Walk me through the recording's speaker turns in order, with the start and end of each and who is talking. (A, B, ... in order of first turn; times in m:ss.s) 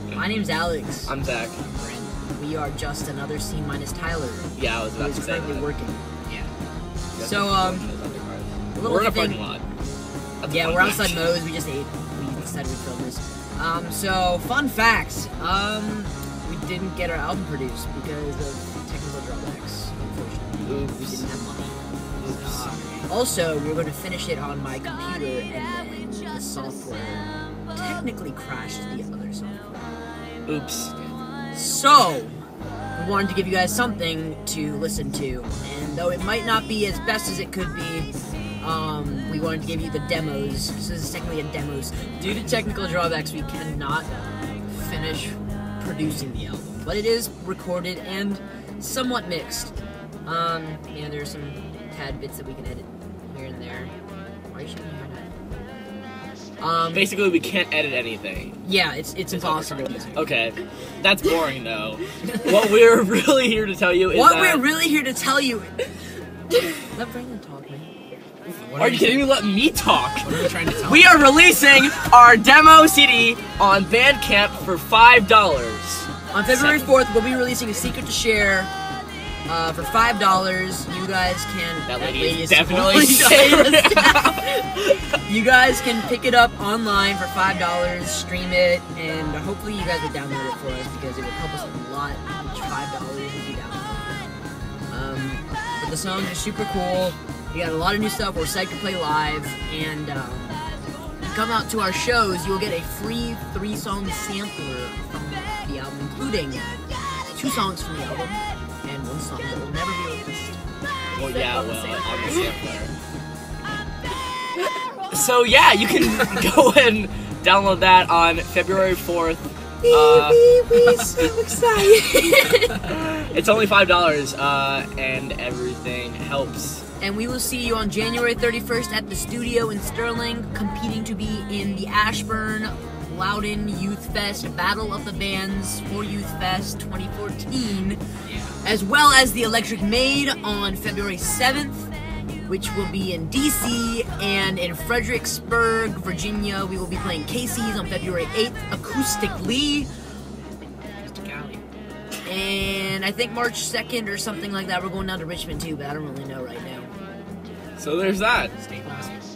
0:00.1-0:01.1 A
0:01.1-0:01.6 B
0:01.7-0:06.0 A
0:04.6-0:05.7 B
0:07.2-0:09.6 B
0:07.2-0:07.9 A
0:08.8-0:09.4 A
0:10.4-0:11.2 B
0:10.5-0:21.8 A
0:20.6-0:21.2 B
0:22.2-0:22.7 B
0:22.3-0:23.1 C
0:23.1-0:29.8 A
0:30.5-0:30.9 B
0:31.5-0:32.4 A
0:33.0-0:38.1 A
0:38.6-0:44.1 A
0:44.7-0:49.7 A
0:50.2-0:53.9 A
0:54.5-0:55.3 A
0:56.6-0:57.2 A
0:56.9-0:58.6 B
0:58.6-1:00.3 A
0:59.3-1:04.7 B
1:02.2-1:02.6 A
1:04.1-1:05.9 A
1:06.8-1:07.9 A
1:08.4-1:09.3 C
1:08.8-1:16.9 B
1:10.2-1:11.2 C
1:16.3-1:18.7 A
1:19.5-1:34.1 A
1:21.9-1:24.4 B
1:34.9-1:40.6 A
1:41.2-1:46.6 A
1:47.3-1:50.6 A
1:51.1-1:52.9 B
1:51.2-1:52.5 A
1:55.1-2:00.4 B
1:59.8-2:03.0 A
2:02.8-2:06.8 B
2:07.0-2:18.0 A
2:18.2-2:18.6 C
2:18.6-2:21.9 A
2:22.5-2:29.9 A
2:31.0-2:31.6 C
2:32.2-2:36.9 A
2:37.8-2:38.5 B
2:38.6-2:39.2 C